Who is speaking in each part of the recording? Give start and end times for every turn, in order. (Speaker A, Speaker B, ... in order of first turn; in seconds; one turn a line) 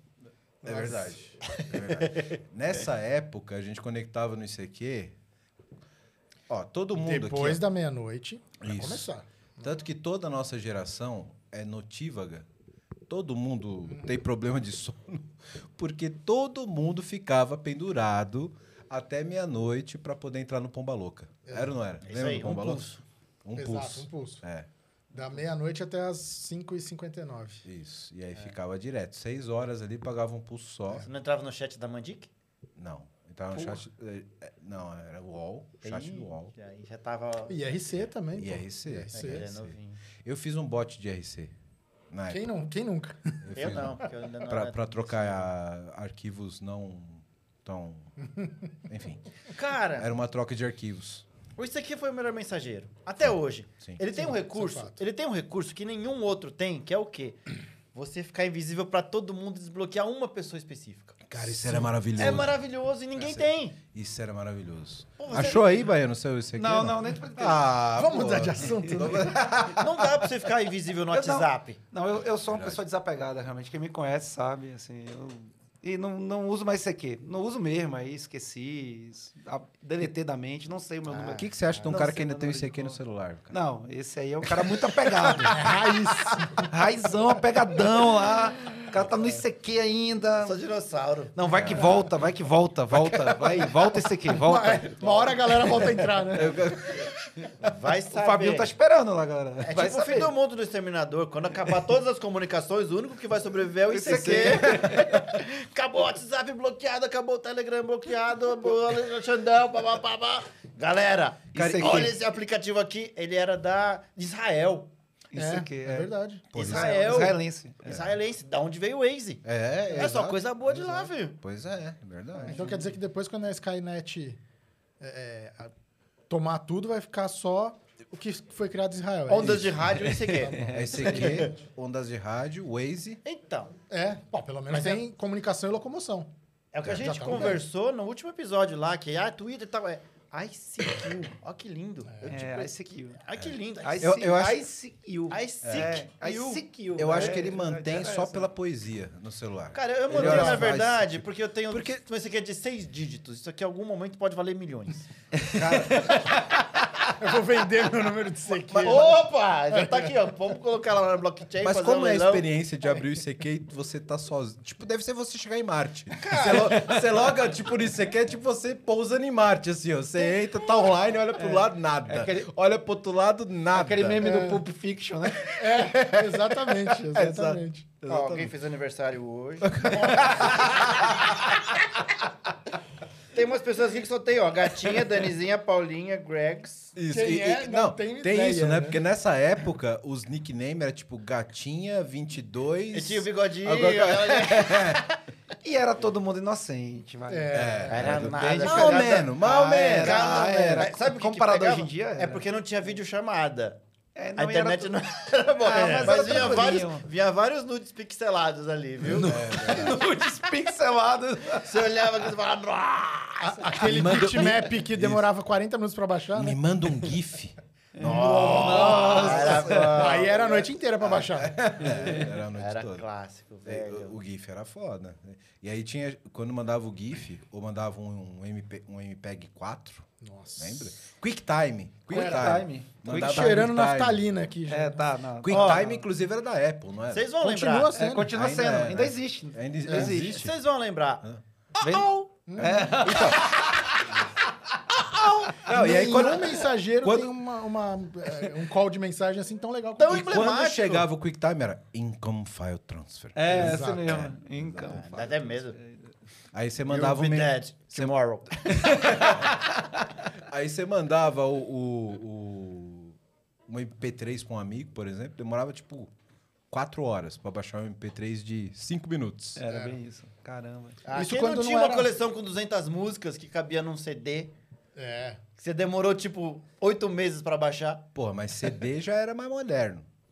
Speaker A: 0.6-5.1
Speaker B: 0.6-1.1
Speaker C: 1.5-2.3
Speaker A: 6.5-7.6
Speaker B: 7.0-9.7
Speaker A: 8.6-9.1
Speaker A: 9.6-12.5
Speaker A: 13.1-24.7
Speaker B: 13.8-14.2
Speaker B: 21.4-21.7
Speaker C: 22.0-22.9
Speaker D: 22.5-22.9
Speaker B: 23.6-24.4
Speaker B: 25.1-27.6
Speaker A: 27.6-31.1
Speaker C: 31.0-32.3
Speaker A: 32.8-36.5
Speaker D: 33.5-33.8
Speaker C: 35.8-37.8
Speaker B: 37.5-39.5
Speaker A: 38.3-41.5
Speaker C: 39.1-40.0
Speaker A: 42.1-42.5
Speaker B: 42.3-43.8
Speaker A: 43.4-48.1
Speaker C: 43.5-45.5
Speaker B: 48.2-48.7
Speaker A: 48.9-49.3
Speaker C: 49.5-50.1
Speaker A: 50.0-51.2
Speaker C: 51.5-61.2
Speaker B: 54.1-55.0
Speaker A: 61.2-62.6
Speaker B: 61.4-61.9
Speaker C: 62.2-63.8
Speaker A: 63.1-70.2
Speaker C: 65.2-65.9
Speaker D: 66.5-67.7
Speaker B: 68.0-69.4
Speaker D: 68.6-69.1
Speaker C: 69.8-71.8
Speaker D: 71.1-83.0
Speaker A: 72.5-72.8
Speaker C: 81.1-81.9
Speaker A: 81.3-83.6
Speaker D: 83.5-85.8
Speaker A: 84.5-85.7
Speaker B: 85.5-86.7
Speaker D: 86.7-90.6
Speaker C: 90.4-91.3
Speaker D: 91.3-95.5
Speaker A: 91.5-91.8
Speaker B: 94.2-97.1
Speaker A: 96.3-97.1
Speaker C: 97.6-98.7
Speaker D: 98.1-100.3
Speaker C: 99.6-114.9
Speaker D: 103.9-105.1
Speaker A: 104.0-105.3
Speaker A: 111.5-112.1
Speaker D: 111.5-112.2
Speaker D: 115.3-118.0
Speaker B: 115.3-116.5
Speaker A: 116.5-117.3
Speaker C: 116.5-121.3
Speaker A: 117.8-118.1
Speaker A: 119.4-122.5
Speaker B: 122.5-124.4
Speaker D: 122.5-122.9
Speaker B: 125.0-125.7
Speaker B: 126.3-129.8
Speaker C: 129.3-131.5
Speaker A: 129.4-130.0
Speaker D: 130.1-131.5
Speaker A: 130.7-133.2
Speaker C: 133.2-133.8
Speaker B: 133.9-136.3
Speaker C: 134.7-135.0
Speaker C: 136.7-144.4
Speaker B: 136.8-137.7
Speaker B: 142.1-142.3
Speaker D: 142.3-143.2
Speaker A: 143.3-144.6
Speaker D: 143.8-148.5
Speaker C: 145.3-147.4
Speaker A: 145.6-146.0
Speaker A: 146.9-152.0
Speaker C: 149.7-155.1
Speaker B: 150.1-150.8
Speaker D: 155.3-156.6
Speaker A: 155.5-156.2
Speaker B: 157.2-159.2
Speaker A: 158.7-159.1
Speaker C: 158.8-162.5
Speaker B: 159.7-160.1
Speaker A: 161.6-174.2
Speaker C: 166.2-166.7
Speaker D: 166.4-166.9
Speaker D: 171.4-172.5
Speaker D: 173.7-175.6
Speaker B: 174.2-174.6
Speaker A: 175.4-178.5
Speaker B: 175.6-177.9
Speaker C: 178.1-181.6
Speaker A: 179.6-181.3
Speaker C: 183.3-186.9
Speaker A: 186.9-195.1
Speaker B: 187.1-189.0
Speaker C: 192.9-195.1
Speaker D: 195.6-199.3
Speaker B: 197.3-198.1
Speaker A: 197.5-200.9
Speaker C: 197.9-203.8
Speaker D: 199.8-202.4
Speaker D: 204.1-207.1
Speaker C: 204.3-209.4
Speaker A: 206.0-206.8
Speaker D: 209.0-212.0
Speaker A: 209.1-210.0
Speaker C: 211.6-213.8
Speaker B: 213.4-216.6
Speaker A: 213.8-215.3
Speaker A: 216.3-219.9
Speaker C: 218.0-220.6
Speaker B: 218.0-221.6
Speaker D: 218.0-220.2
Speaker A: 221.0-223.1
Speaker D: 221.9-222.2
Speaker C: 222.0-224.1
Speaker A: 223.6-234.2
Speaker B: 230.2-230.9
Speaker D: 232.1-233.7
Speaker B: 232.1-232.6
Speaker B: 233.1-235.0
Speaker D: 234.7-236.0
Speaker A: 235.4-237.3
Speaker C: 235.5-236.0
Speaker C: 237.1-237.9
Speaker B: 237.4-238.3
Speaker D: 237.9-240.4
Speaker A: 238.3-240.6
Speaker C: 239.9-241.2
Speaker D: 241.8-244.1
Speaker C: 241.8-242.1
Speaker B: 242.5-243.2
Speaker A: 242.6-244.3
Speaker C: 245.2-245.5
Speaker A: 245.5-247.3
Speaker B: 245.6-250.4
Speaker C: 250.0-251.1
Speaker A: 250.1-255.0
Speaker D: 253.3-256.1
Speaker B: 253.5-254.2
Speaker C: 254.8-255.8
Speaker A: 256.5-258.1
Speaker C: 256.9-259.2
Speaker D: 258.6-259.8
Speaker A: 258.9-259.6
Speaker A: 260.3-266.1
Speaker A: 266.7-269.6
Speaker D: 269.6-271.0
Speaker C: 271.0-274.5
Speaker B: 271.1-272.1
Speaker B: 274.9-275.4
Speaker C: 275.6-278.1
Speaker A: 278.1-280.1